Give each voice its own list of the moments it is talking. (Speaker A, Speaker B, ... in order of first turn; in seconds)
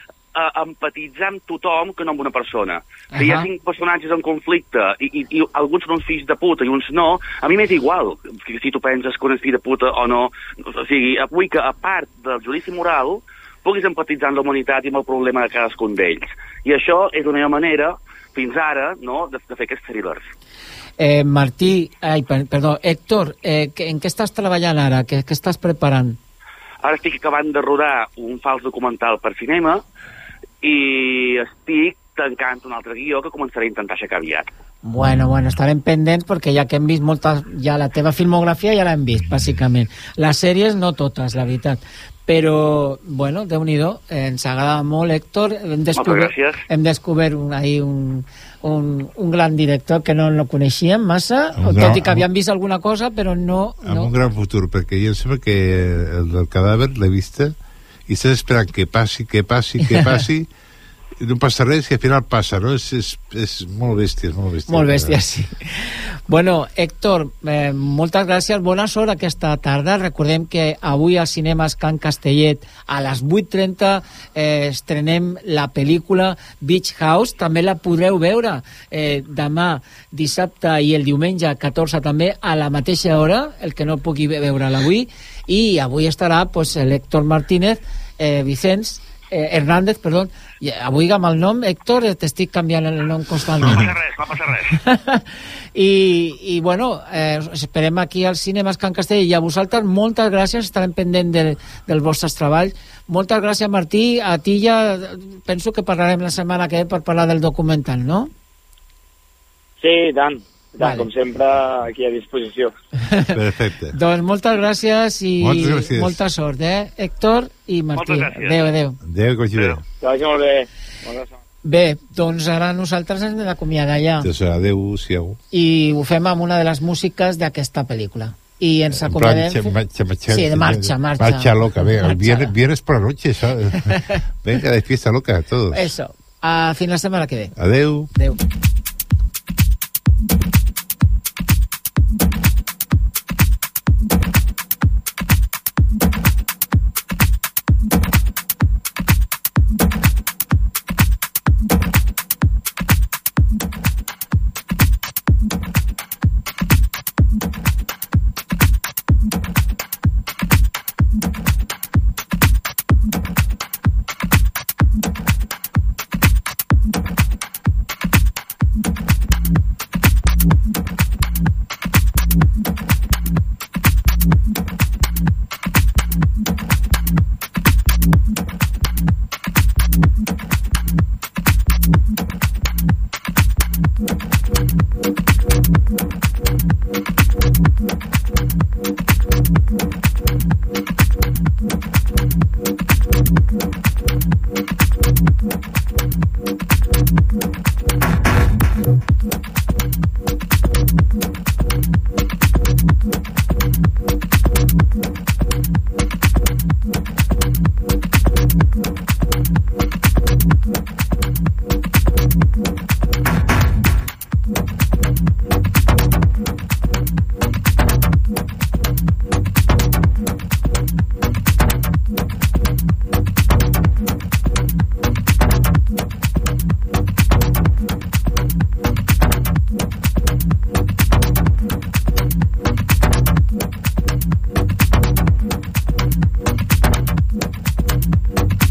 Speaker A: 0.3-20.2, 26.8-29.8, 30.6-34.5, 46.0-46.6, 93.6-94.8, 117.9-118.7
Speaker B: 3.1-3.5, 21.0-26.2, 34.8-54.1, 59.8-60.2, 64.7-93.9, 94.7-95.2, 95.8-108.3, 110.8-111.1, 113.0-113.3, 113.9-119.0, 121.6-124.3, 125.5-129.7, 130.3-132.5, 135.7-137.5
Speaker C: 51.5-52.2, 53.8-57.5, 58.1-60.5, 61.2-65.2, 93.6-93.9, 113.3-114.0, 115.4-116.2, 119.0-119.8, 124.2-125.4, 128.9-135.9, 137.6-138.1
Speaker D: 109.8-112.7, 120.0-121.3